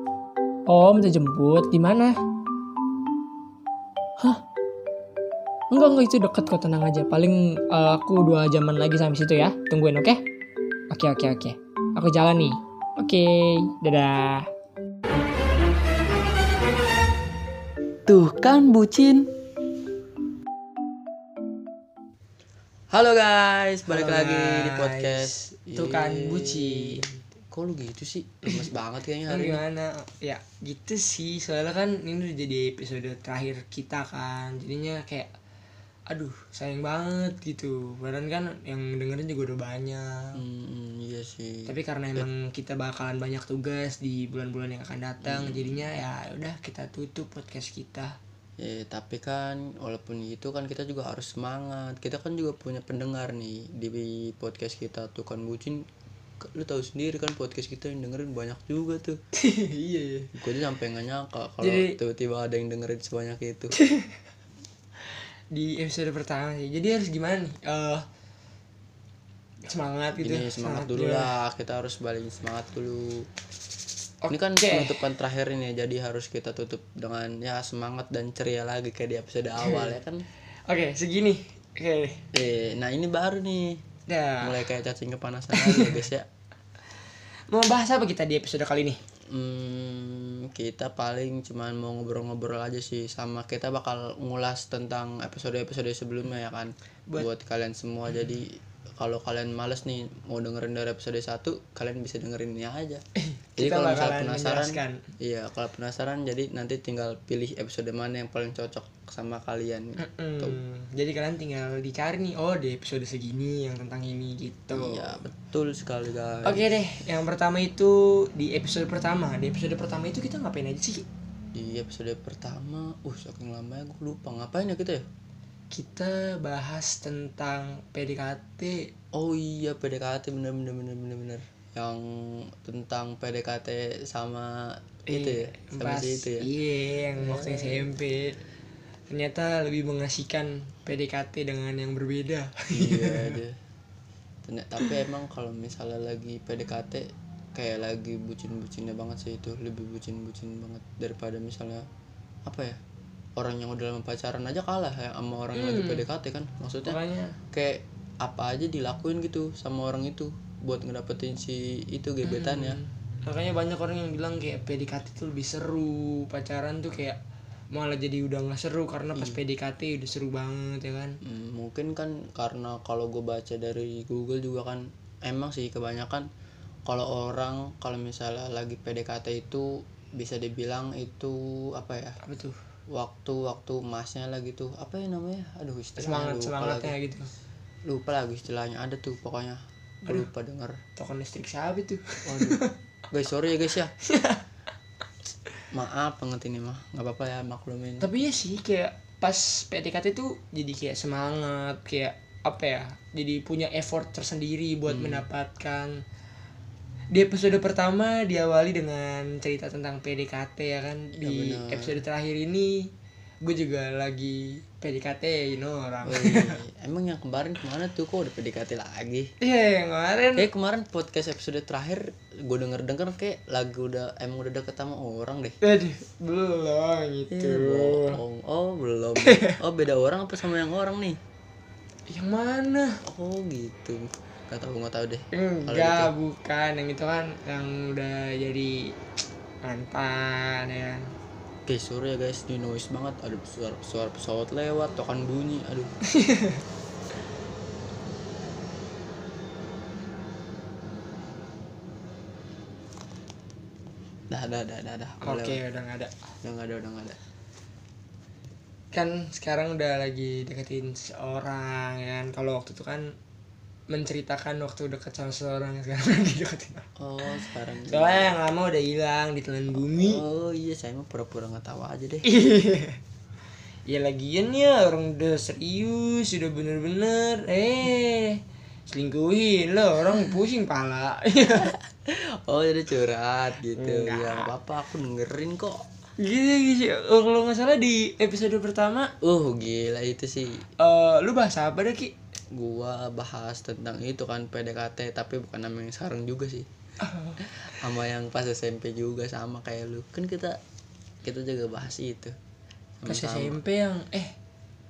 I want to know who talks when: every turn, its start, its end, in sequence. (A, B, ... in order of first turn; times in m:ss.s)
0:00.7-0:02.2 A
0:05.7-0:10.2 A
0:10.9-0:14.5 A
0:18.1-0:19.3 B
0:22.9-0:29.6 B
0:23.9-0:27.2 A
0:29.3-0:35.3 A
0:36.1-0:40.4 A
0:40.3-0:42.2 B
0:41.6-0:48.2 A
0:45.2-0:45.8 B
0:48.6-0:55.8 B
0:56.4-0:59.2 B
0:59.3-1:00.3 A
1:00.3-1:03.8 B
1:01.6-1:02.0 A
1:03.8-1:04.1 A
1:05.5-1:08.0 A
1:09.6-1:11.3 A
1:10.2-1:13.3 B
1:14.2-1:15.0 A
1:14.3-1:20.2 B
1:19.6-1:20.0 A
1:20.7-1:22.2 A
1:22.3-1:23.8 B
1:24.1-1:24.6 A
1:24.4-1:26.2 B
1:25.5-1:26.0 A
1:27.5-1:29.0 A
1:29.3-1:43.0 B
1:43.2-1:45.0 A
1:43.6-1:50.6 B
1:50.0-1:55.2 A
1:54.7-1:56.6 B
1:56.4-2:01.0 A
2:01.5-2:05.0 B
2:05.7-2:08.9 A
2:09.1-2:16.5 B
2:15.1-2:18.4 A
2:17.2-2:17.9 B
2:19.1-2:23.4 A
2:22.7-2:23.6 B
2:24.4-2:31.8 B
2:32.4-2:32.8 B
2:33.4-2:37.0 B
2:35.5-2:36.0 A
2:36.8-2:37.4 A
2:37.5-2:42.8 B
2:42.2-2:47.2 A
2:47.7-2:51.2 A
2:51.2-2:56.3 B
2:56.8-3:02.2 B
3:02.2-3:02.6 A
3:02.9-3:06.9 B
3:06.0-3:07.3 A
3:07.9-3:10.8 B
3:11.0-3:12.7 A
3:12.2-3:13.9 B
3:14.0-3:14.4 A
3:15.7-3:18.1 B
3:18.0-3:26.0 A
3:24.9-3:25.2 B
3:27.1-3:32.9 A
3:31.2-3:32.0 B
3:33.4-3:36.6 A
3:36.0-3:39.3 B
3:39.4-3:40.5 A
3:40.4-3:45.6 B
3:45.6-3:48.2 A
3:47.3-3:51.2 B
3:49.2-3:49.6 A
3:52.1-3:53.0 A
3:53.0-3:56.1 B
3:55.3-3:58.9 A
3:59.6-4:01.1 A
4:01.7-4:05.9 B
4:06.1-4:06.6 A
4:14.3-4:15.6 B
4:15.2-4:16.1 A
4:16.4-4:17.2 B
4:18.9-4:23.1 A
4:23.9-4:26.8 A
4:27.0-4:28.4 B
4:27.9-4:30.2 A
4:29.7-4:32.3 B
4:32.2-4:33.0 A
4:33.9-4:41.7 A
4:41.6-4:45.8 B
4:43.7-4:44.5 A
4:46.2-4:49.1 A
4:49.2-4:50.7 B
4:50.8-4:52.1 A
4:52.5-4:56.7 B
4:57.0-4:57.4 A
4:57.4-5:00.6 B
5:01.2-5:02.4 B
5:03.0-5:03.6 B
5:03.0-5:04.3 A